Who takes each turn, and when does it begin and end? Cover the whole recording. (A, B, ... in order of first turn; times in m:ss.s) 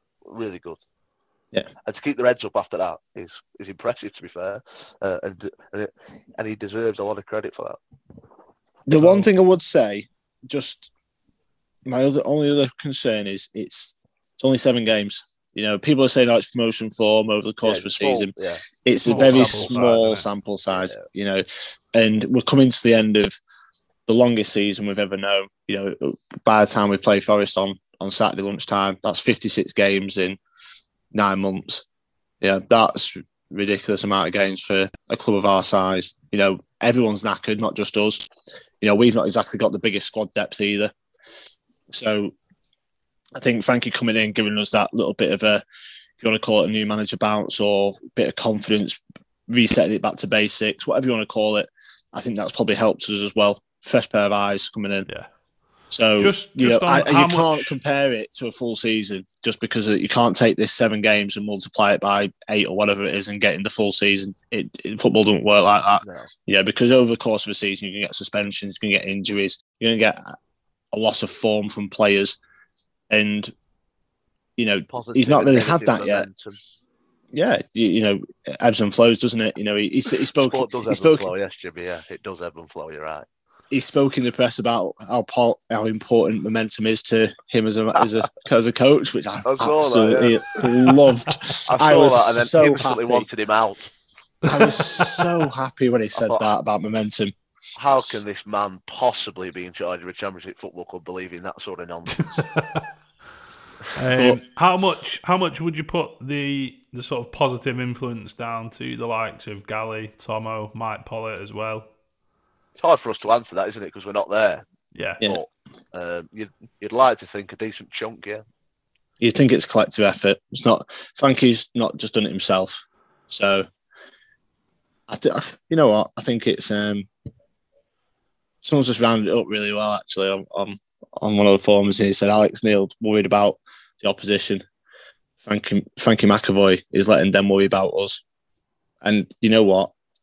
0:00.2-0:00.8 A
0:01.8-0:07.8 A
0:08.9-0:10.9 B
0:09.0-0:09.3 C
0:11.9-0:23.4 B
0:17.6-0:19.7 A
0:19.1-0:20.3 C
0:20.7-0:21.0 A
0:24.1-0:30.4 B
0:31.1-0:31.8 B
0:32.4-0:38.3 B
0:38.8-0:40.9 B
0:41.9-0:42.4 B
0:43.4-0:45.6 B
0:46.2-0:55.1 B
0:55.9-1:10.4 B
0:56.2-0:57.8 C
1:06.0-1:06.3 A
1:10.9-1:12.4 B
1:13.1-1:13.5 B
1:14.6-1:16.3 B
1:14.9-1:16.6 A
1:17.3-1:21.3 B
1:20.4-1:23.3 A
1:23.7-1:33.3 B
1:29.4-1:31.0 A
1:31.6-1:33.9 A
1:34.5-1:37.3 B
1:34.6-1:35.2 C
1:36.2-1:36.5 A
1:37.8-1:42.3 A
1:42.2-1:42.8 C
1:43.9-1:51.9 C
1:44.2-1:44.4 B
1:52.8-1:54.7 A
1:54.9-1:55.2 C
1:55.2-1:58.4 A
1:59.2-2:03.7 B
2:05.1-2:07.1 B
2:08.6-2:14.6 B
2:15.4-2:18.2 B
2:19.0-2:19.9 B